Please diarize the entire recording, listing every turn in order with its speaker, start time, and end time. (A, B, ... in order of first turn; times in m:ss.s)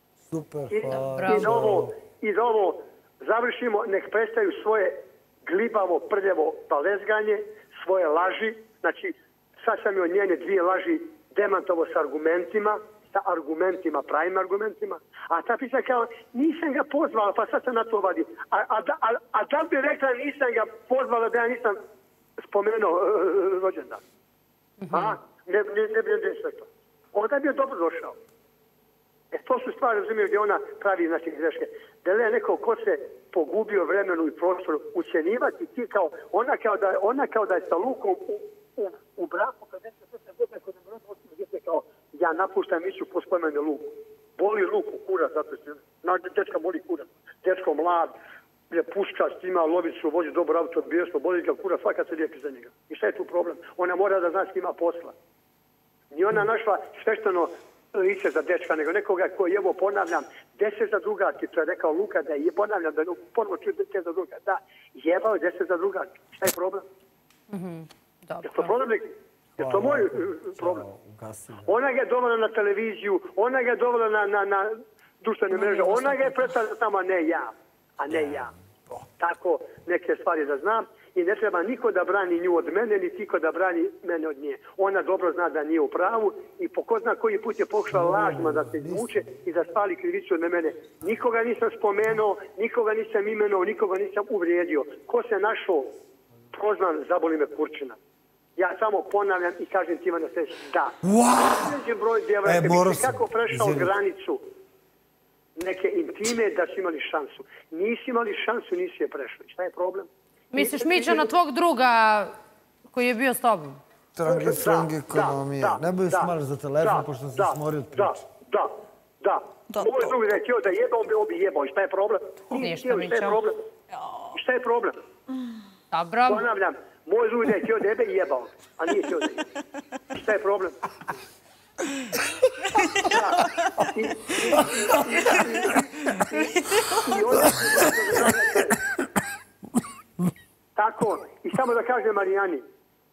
0:00.3-0:01.9 A
0:00.7-0:21.8 B
0:00.9-0:01.5 C
0:22.4-0:24.0 B
0:24.8-0:25.1 C
0:24.9-0:28.2 B
0:29.3-0:48.1 B
0:48.7-0:55.1 B
0:56.1-1:06.8 B
1:07.5-1:08.7 C
1:08.4-1:10.8 B
1:09.6-1:11.7 A
1:11.6-1:18.5 B
1:15.5-1:16.4 C
1:18.1-1:18.4 A
1:19.2-1:35.9 B
1:27.9-1:29.2 A
1:36.5-1:38.0 B
1:38.6-1:41.0 B
1:41.0-1:41.8 A
1:41.5-1:44.4 B
1:42.4-1:43.9 A
1:45.6-1:51.3 B
1:50.5-1:52.3 C
1:52.9-1:53.8 C
1:54.2-1:58.2 A
1:54.2-2:03.6 B
2:02.5-2:03.4 C
2:04.3-2:05.0 B
2:05.9-2:06.5 C
2:06.3-2:09.4 B
2:10.1-2:10.8 B
2:12.9-2:18.8 B
2:20.8-2:22.6 B